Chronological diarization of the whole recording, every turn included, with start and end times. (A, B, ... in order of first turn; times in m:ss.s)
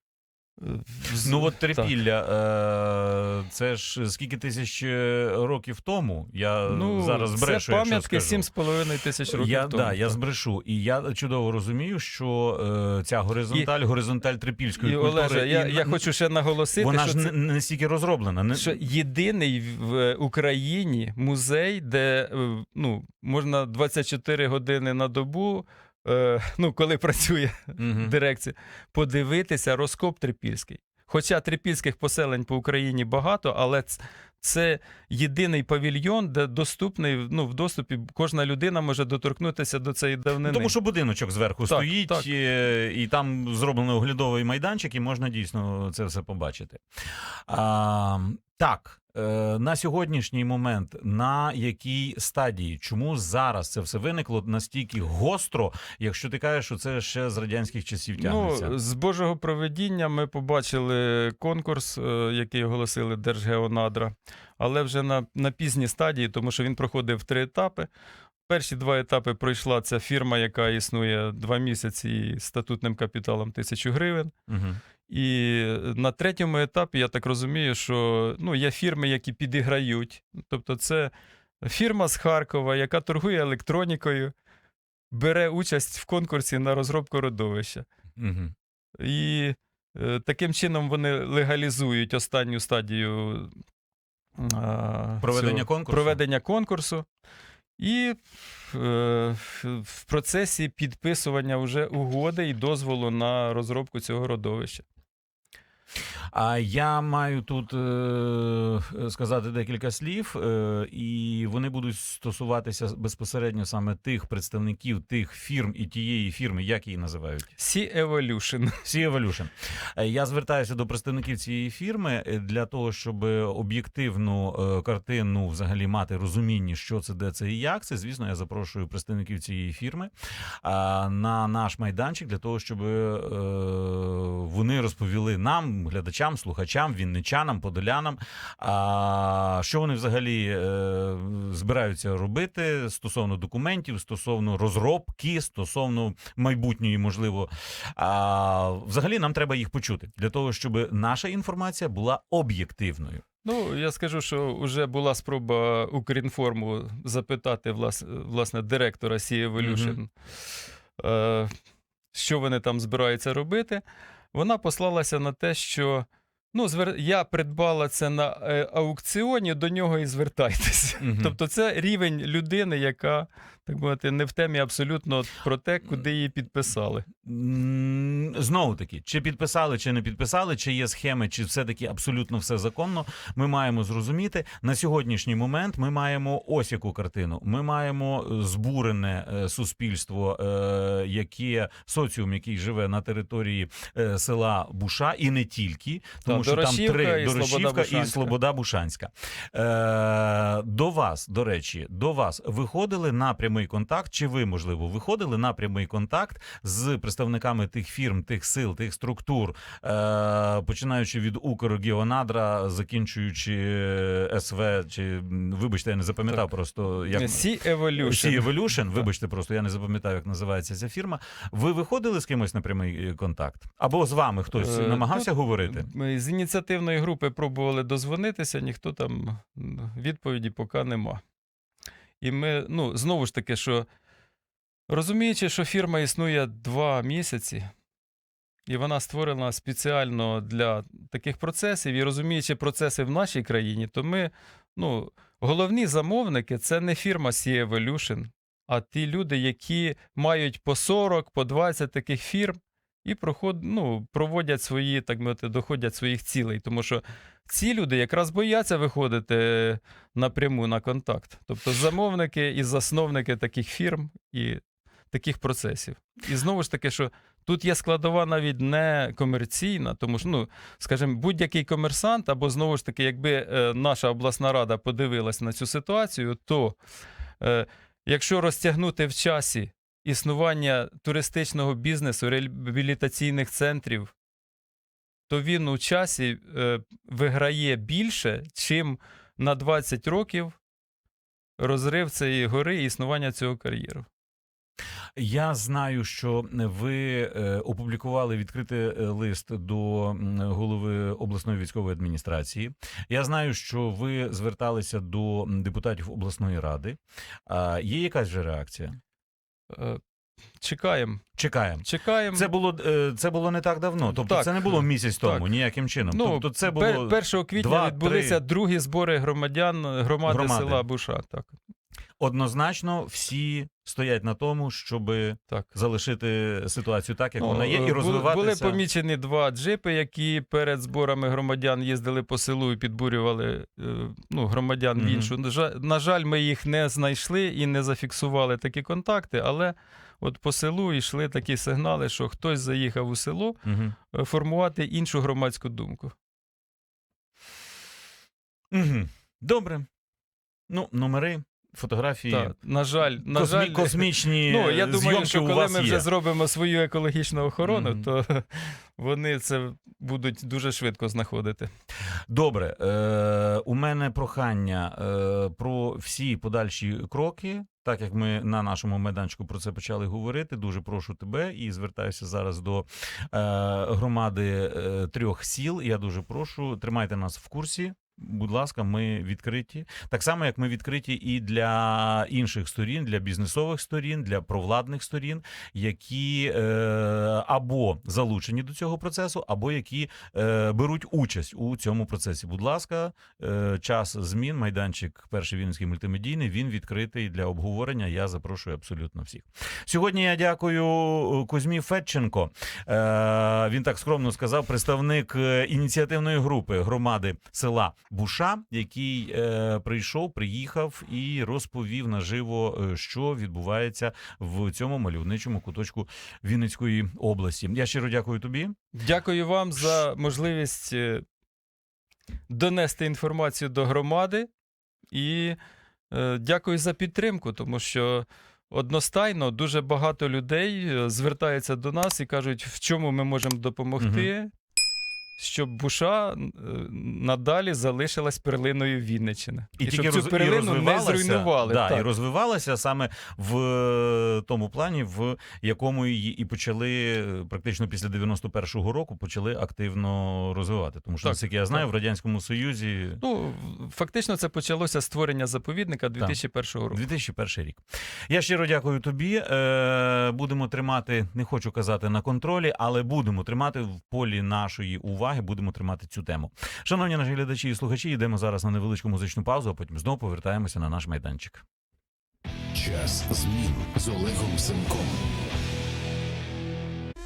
0:00.6-0:01.9 A
0:01.2-0:08.4 B
0:06.7-0:10.2 A
0:09.3-0:16.0 B
0:14.8-0:17.3 A
0:16.8-0:18.8 B
0:18.5-0:40.7 A
0:27.8-0:28.1 B
0:40.4-0:46.8 B
0:41.7-0:42.3 A
0:47.5-0:58.7 B
0:58.2-1:07.9 A
1:08.5-1:14.3 A
1:14.5-1:14.8 B
1:15.1-1:21.1 A
1:21.6-1:24.3 A
1:25.1-1:27.8 A
1:28.2-1:28.5 B
1:29.0-1:33.5 A
1:34.4-1:37.0 A
1:35.2-1:36.2 B
1:37.8-1:44.8 A
1:46.3-1:57.5 B
1:57.6-1:58.8 A
1:58.8-2:10.1 B
2:10.6-2:33.2 B
2:33.4-2:40.1 A
2:39.6-2:40.0 B
2:41.0-2:41.5 A
2:42.1-2:43.8 A
2:44.3-2:57.1 A
2:51.0-2:51.3 B
2:57.2-3:37.5 B
3:16.3-3:18.3 A
3:37.1-3:38.5 A
3:38.0-3:45.9 B
3:44.5-3:51.2 A
3:52.2-3:53.8 A
3:54.9-3:57.7 A
3:58.7-4:24.6 A
4:25.1-4:36.8 A
4:37.4-4:44.1 A
4:45.3-4:50.6 A
4:51.6-4:54.0 A
4:55.2-5:09.0 B
5:09.7-5:10.0 A
5:10.6-5:11.2 A
5:11.4-5:18.4 B
5:11.8-5:12.5 A
5:14.1-5:15.5 A
5:16.1-5:21.5 A
5:20.2-5:20.8 B
5:22.2-5:28.8 B
5:27.4-5:43.6 A
5:35.0-5:35.3 B
5:43.6-5:43.9 B
5:44.1-5:46.1 A
5:48.7-5:49.9 B
5:50.7-5:52.5 B
5:52.3-6:01.7 A
5:53.2-5:56.1 B
5:57.6-5:58.0 B
6:02.3-6:58.7 B
6:59.0-7:01.2 A
7:02.5-7:04.5 A
7:05.1-7:05.6 A
7:06.1-7:14.5 A
7:14.0-7:14.3 B
7:15.4-7:22.1 A
7:19.8-7:33.2 B
7:31.2-7:31.8 A
7:33.2-7:37.0 A
7:36.9-7:51.6 B
7:52.7-7:55.3 C